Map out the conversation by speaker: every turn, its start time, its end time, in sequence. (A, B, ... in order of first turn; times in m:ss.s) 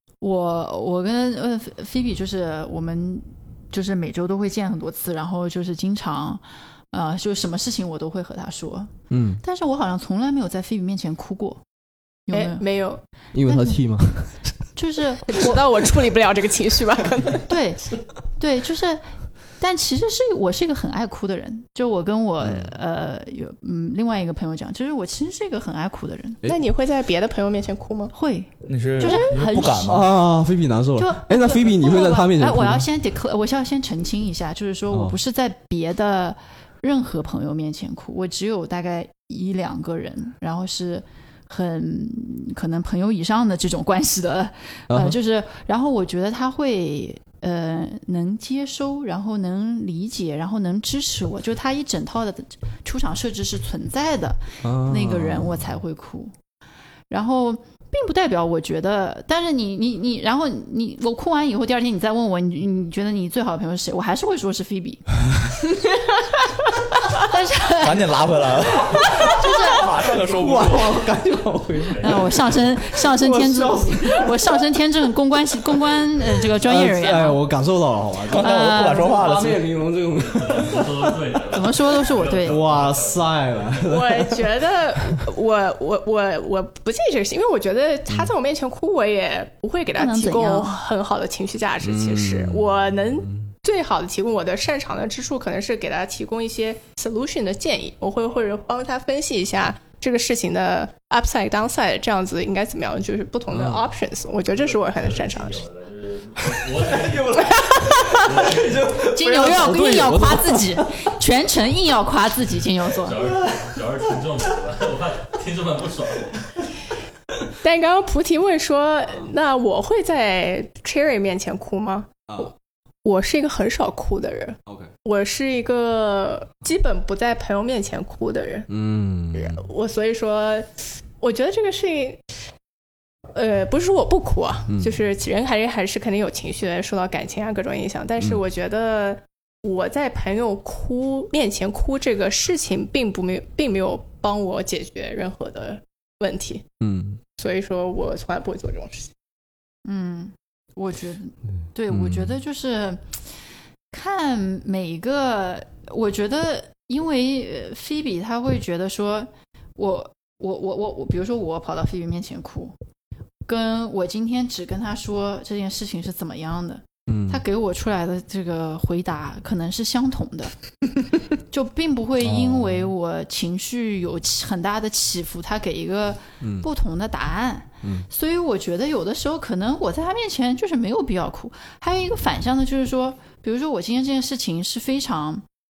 0:00.2-0:11.6 A
0:09.1-0:09.4 B
0:12.3-0:12.6 A
0:12.3-0:13.0 C
0:13.3-0:14.7 B
0:13.5-0:13.8 A
0:14.7-0:15.5 A
0:15.3-0:17.5 C
0:17.5-0:19.0 A
0:19.6-0:26.4 A
0:22.4-0:22.7 B
0:26.5-0:28.1 C
0:28.1-0:30.0 A
0:28.6-0:30.1 D
0:29.8-0:32.9 B
0:31.0-0:56.3 A
0:34.9-0:35.2 B
0:44.9-0:45.2 B
0:54.6-0:55.8 B
0:57.1-1:05.0 A
1:07.2-1:08.1 A
1:07.8-1:11.0 D
1:09.3-1:09.8 A
1:10.2-1:14.6 B
1:11.8-1:12.5 E
1:12.0-1:17.4 A
1:16.5-1:21.6 B
1:18.2-1:19.7 D
1:18.4-1:19.2 A
1:20.1-1:23.9 E
1:21.5-1:22.6 A
1:22.4-1:25.2 B
1:23.8-1:45.6 C
1:30.0-1:30.8 A
1:31.8-1:33.5 B
1:43.5-1:43.9 B
1:44.5-1:49.1 E
1:46.9-1:50.8 B
1:49.1-1:53.2 A
1:53.0-1:56.6 E
1:57.6-2:02.5 C
2:02.3-2:02.5 B
2:03.0-2:08.7 C
2:04.6-2:04.9 B
2:08.7-2:09.6 B
2:09.3-2:12.2 C
2:13.3-2:26.6 C
2:14.7-2:15.0 B
2:26.8-2:27.2 B
2:27.4-2:29.1 C
2:29.8-2:33.2 A
2:31.9-2:32.4 B
2:33.9-2:42.7 A
2:43.5-2:50.5 A
2:47.1-2:47.4 B
2:51.5-3:05.4 A
2:52.2-2:52.9 B
2:56.4-2:56.7 B
2:57.8-2:58.1 B